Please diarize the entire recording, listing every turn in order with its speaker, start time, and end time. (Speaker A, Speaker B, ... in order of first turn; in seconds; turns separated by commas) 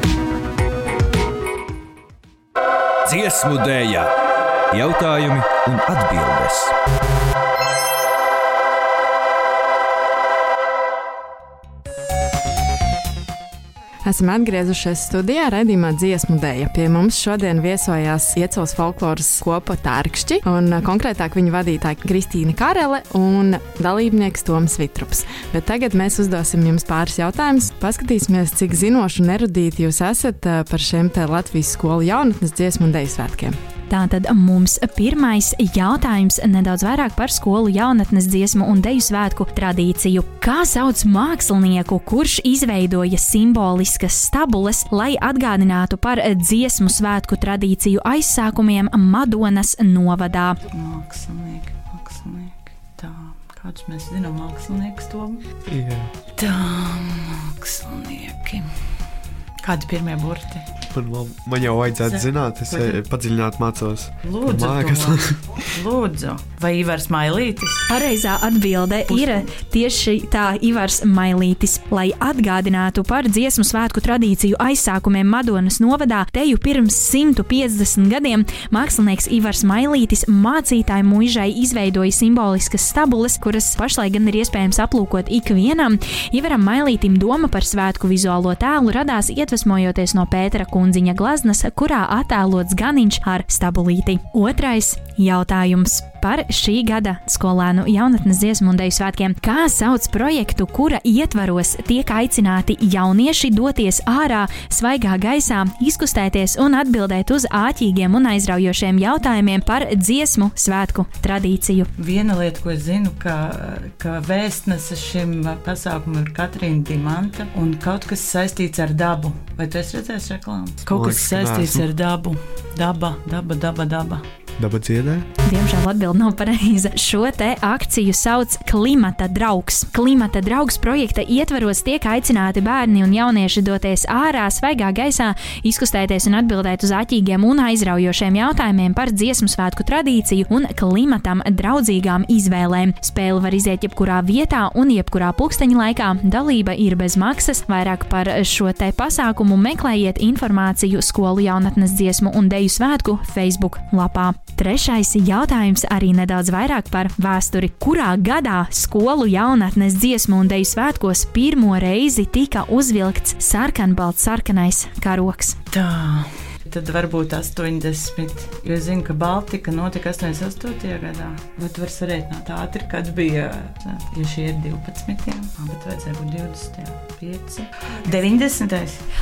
Speaker A: 3.0-4.1, Speaker A: 4.7-6.7, Speaker B: 14.0-33.5, Speaker C: 33.9-50.6, Speaker D: 50.7-55.4, Speaker E: 55.7-56.1, Speaker D: 56.4-58.6, Speaker D: 59.6-60.6, Speaker E: 60.9-65.6, Speaker D: 62.0-63.0, Speaker D: 64.2-67.9, Speaker C: 67.9-111.9, Speaker D: 69.1-69.4, Speaker D: 112.0-124.2, Speaker E: 120.9-121.9, Speaker E: 124.6-125.3, Speaker C: 125.4-165.6, Speaker D: 165.7-179.0